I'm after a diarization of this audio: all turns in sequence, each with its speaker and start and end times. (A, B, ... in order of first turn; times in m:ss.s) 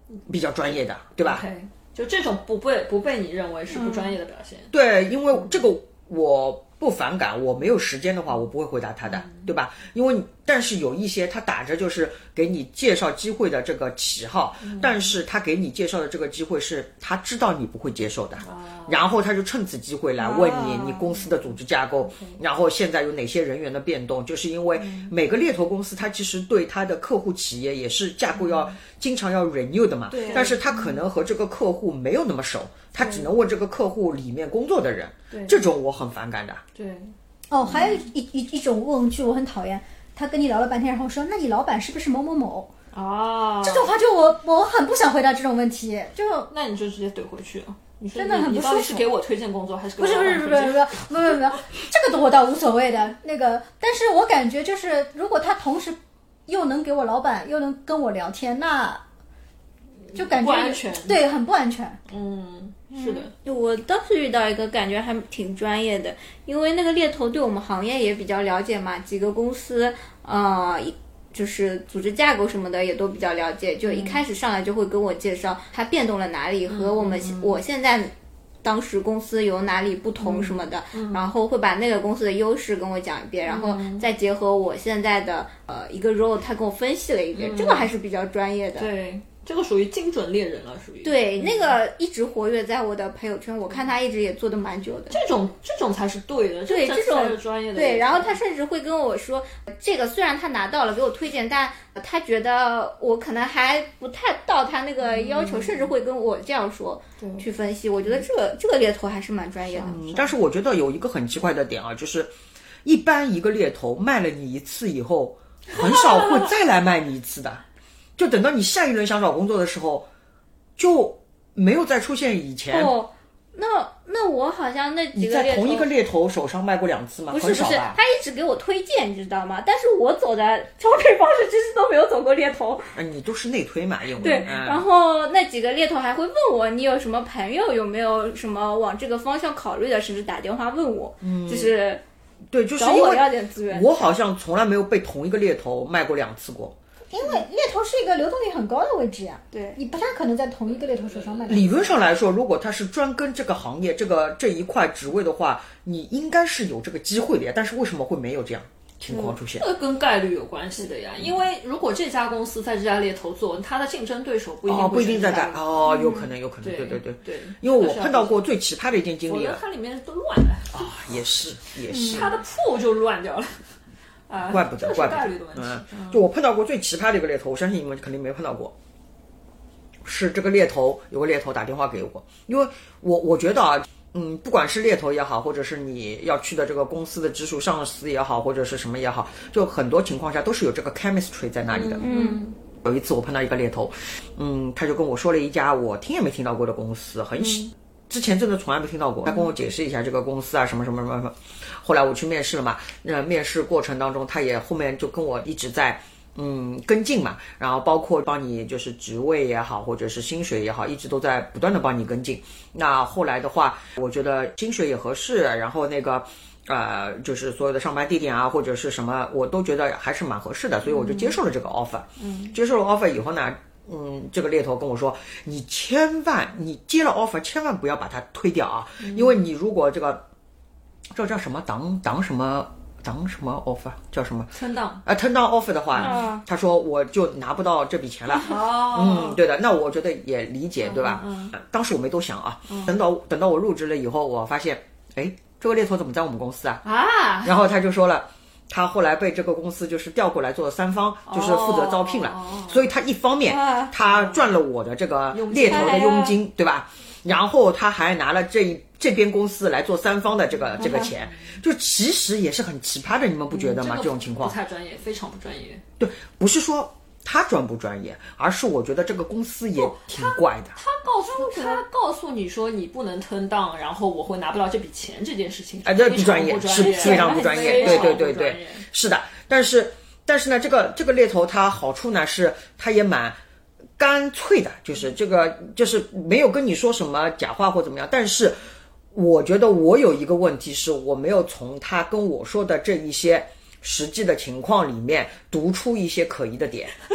0:00.3-0:01.4 A
0:01.2-0:04.7 B
0:03.7-0:04.2 C
0:04.7-0:36.6 A
0:09.0-0:09.5 B
0:14.6-0:15.1 B
0:18.4-0:19.0 B
0:20.2-0:21.2 C
0:22.1-0:22.4 B
0:24.8-0:25.1 B
0:28.3-0:28.7 B
0:30.1-0:31.0 B
0:30.1-0:30.5 C
0:33.0-0:33.3 B
0:35.3-0:35.6 B
0:36.7-0:37.1 B
0:37.5-0:42.7 D
0:37.6-0:38.0 B
0:42.9-0:44.0 B
0:43.6-0:46.5 D
0:46.5-0:51.0 B
0:48.2-0:49.1 D
0:50.0-0:59.0 D
1:00.1-1:01.2 B
1:00.1-1:02.0 D
1:02.1-1:03.3 B
1:02.9-1:28.9 C
1:13.8-1:14.2 B
1:16.7-1:17.6 B
1:20.2-1:21.2 B
1:23.4-1:24.1 B
1:27.3-1:27.9 B
1:28.8-1:31.8 B
1:31.0-1:35.2 C
1:35.1-1:38.4 B
1:36.7-1:50.0 C
1:45.0-1:45.9 B
1:47.2-1:47.4 B
1:49.7-1:50.2 B
1:49.8-1:52.3 A
1:52.8-1:57.6 A
1:55.9-1:56.4 B
1:58.2-2:00.1 A
2:00.8-2:02.9 A
2:02.7-2:05.9 C
2:05.1-2:08.0 A
2:07.3-2:12.9 C
2:12.9-2:14.8 A
2:14.2-2:22.0 C
2:21.2-2:21.7 A
2:22.5-2:26.8 A
2:22.8-2:24.1 C
2:27.1-2:31.9 D
2:29.5-2:29.8 C
2:30.9-2:31.8 B
2:31.5-2:39.7 A
2:39.1-2:39.4 C
2:39.6-2:45.7 B
2:44.7-2:49.6 A
2:45.9-2:46.3 C
2:46.6-2:48.4 B
2:49.3-2:50.9 B
2:50.7-2:52.3 A
2:51.9-2:53.6 B
2:51.9-2:52.2 C
2:54.3-2:56.2 B
2:54.5-2:58.7 A
3:00.0-3:12.0 A
3:11.7-3:12.5 B
3:12.0-3:12.4 C
3:12.8-3:50.2 A
3:17.4-3:17.7 C
3:40.9-3:41.3 B
3:42.2-3:42.5 B
3:49.0-3:49.4 B
3:51.1-3:54.5 A
3:54.5-3:55.0 B
3:55.0-4:06.8 A
3:56.0-3:56.2 B
3:56.0-3:56.4 C
3:58.3-3:59.4 B
4:00.8-4:01.5 B
4:02.7-4:03.0 B
4:06.8-4:07.5 B
4:07.4-4:24.6 A
4:11.3-4:12.9 B
4:13.5-4:13.9 C
4:14.0-4:14.5 B
4:15.3-4:16.2 B
4:15.6-4:16.4 C
4:20.8-4:21.5 B
4:20.8-4:21.1 C
4:23.5-4:25.8 B
4:26.0-4:30.8 A
4:29.8-4:38.8 B
4:31.4-4:31.8 C
4:35.8-4:43.4 A
4:36.7-4:38.2 C
4:44.0-4:48.6 A
4:49.1-4:56.9 A